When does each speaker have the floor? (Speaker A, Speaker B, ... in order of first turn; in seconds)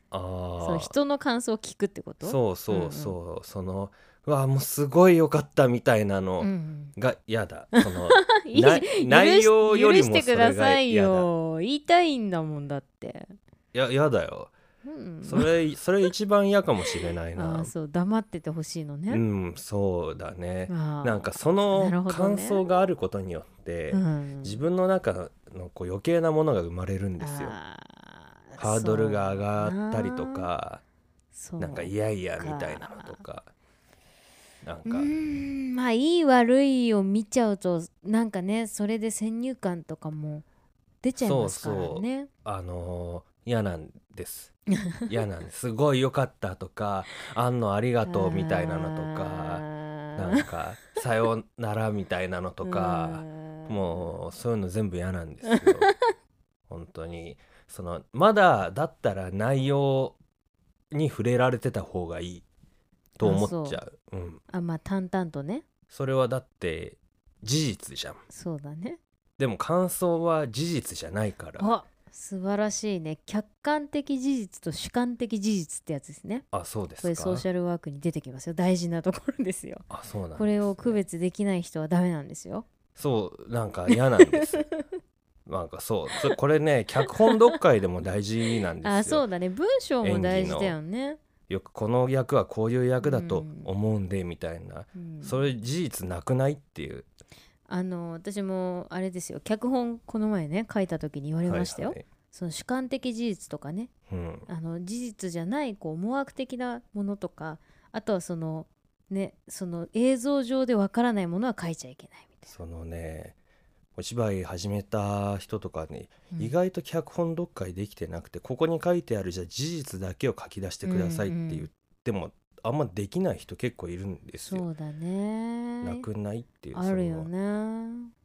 Speaker A: 0.1-0.9, 2.2-11.3, 13.7-14.5, 15.2-17.7, 19.1-27.6, 28.6-30.8, 31.6-33.5, 34.6-35.1, 41.2-44.5, 45.1-49.6, 50.2-55.9, 56.7-60.2, 60.9-62.5, 63.2-64.4, 65.9-68.2, 69.4-71.7, 76.5-77.5, 79.9-81.0, 83.0-84.7, 85.5-89.2, 90.0-90.8, 91.5-97.1, 101.5-102.1, 104.1-104.5, 112.5-113.4, 114.0-124.7, 125.8-127.3
Speaker B: 0.6-3.2, 6.4-7.0, 7.8-13.3, 14.8-15.6, 17.4-19.2, 20.7-22.6, 23.9-24.6, 27.2-30.5, 31.3-33.2, 34.9-40.5, 41.0-42.3, 44.8-45.1, 48.0-50.5, 52.6-54.1, 55.5-56.1, 63.2-63.8, 64.5-65.7, 68.3-69.0, 71.6-76.5, 77.0-82.7, 83.9-84.8, 87.1-87.6, 88.8-91.2, 93.0-93.7, 95.0-95.5, 97.7-103.9, 104.5-112.5, 120.8-121.7, 124.4-126.1, 126.7-128.1